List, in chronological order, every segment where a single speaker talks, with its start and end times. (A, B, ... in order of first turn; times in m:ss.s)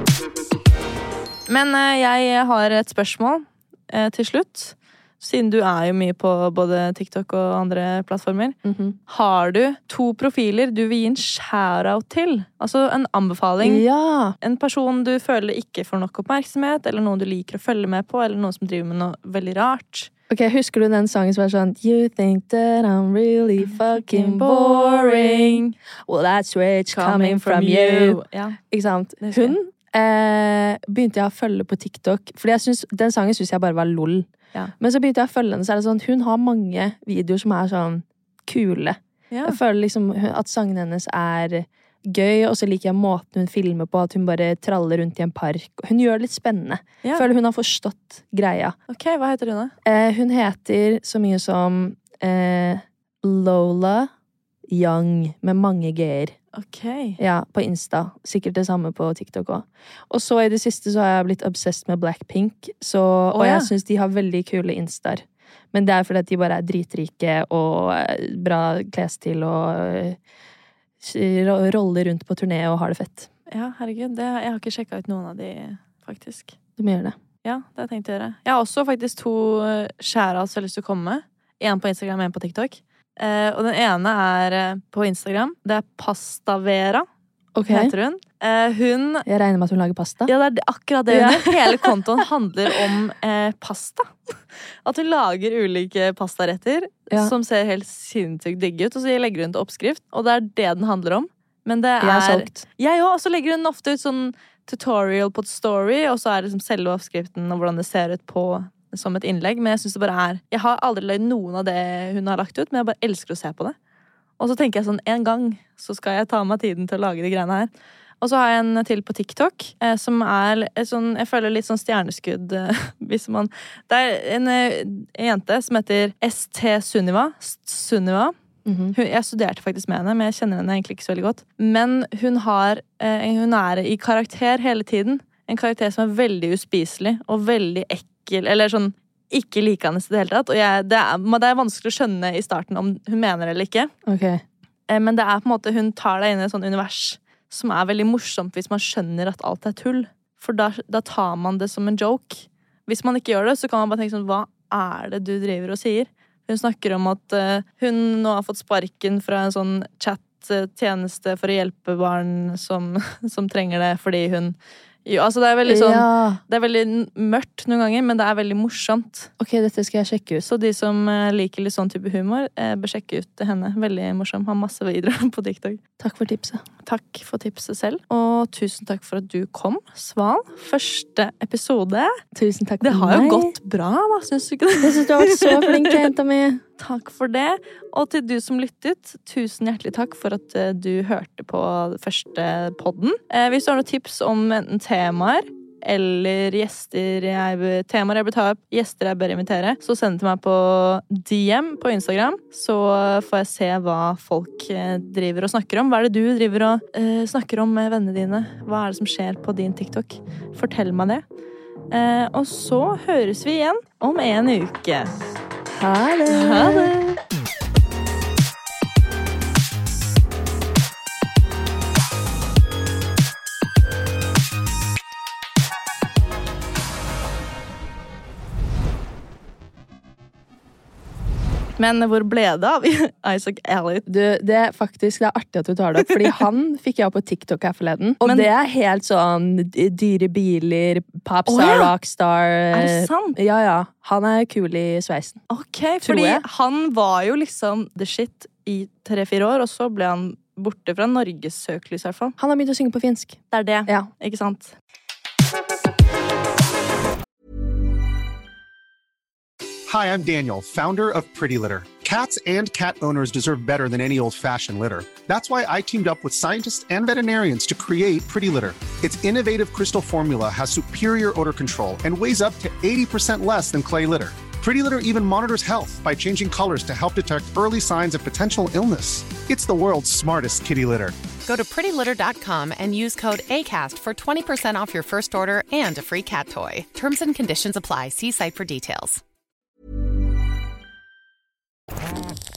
0:01.5-0:08.6 A
0:08.6-0:09.0 B
0:09.1-0:13.8 A
0:13.6-0:14.4 B
0:14.4-0:20.1 A
0:20.3-0:48.8 B
0:24.0-0:25.7 A
0:26.9-0:28.6 A
0:29.2-0:29.6 A
0:39.3-0:39.6 A
0:48.9-0:49.7 A
0:49.8-0:54.1 B
0:54.7-0:56.4 B
0:56.5-0:57.2 A
0:57.2-1:10.2 B
1:03.3-1:03.7 A
1:11.0-1:13.3 B
1:13.5-1:16.6 A
1:16.8-1:17.2 B
1:17.4-1:27.0 A
1:27.5-1:27.9 B
1:27.7-1:29.2 A
1:29.2-1:30.3 B
1:30.3-1:53.8 A
1:31.1-1:32.0 B
1:42.0-1:42.6 B
1:54.4-2:08.3 A
2:08.6-2:08.9 B
2:08.9-2:23.9 A
2:24.0-2:24.4 B
2:24.9-2:49.3 A
2:45.6-2:46.4 B
2:49.4-2:50.4 B
2:50.4-2:55.8 A
2:56.0-2:56.6 B
2:56.9-3:02.1 A
3:02.3-3:03.5 B
3:02.8-3:06.0 A
3:04.8-3:06.6 B
3:06.8-3:31.2 A
3:31.9-3:35.1 A
3:35.7-3:37.2 B
3:36.3-3:36.9 A
3:51.8-3:54.0 A
3:54.0-4:05.4 B
3:58.2-3:58.5 A
4:01.5-4:01.9 A
4:02.7-4:03.4 A
4:05.5-4:12.4 A
4:06.0-4:06.4 B
4:12.4-4:14.1 B
4:13.5-4:14.7 A
4:19.9-4:41.1 C
4:41.4-4:49.2 D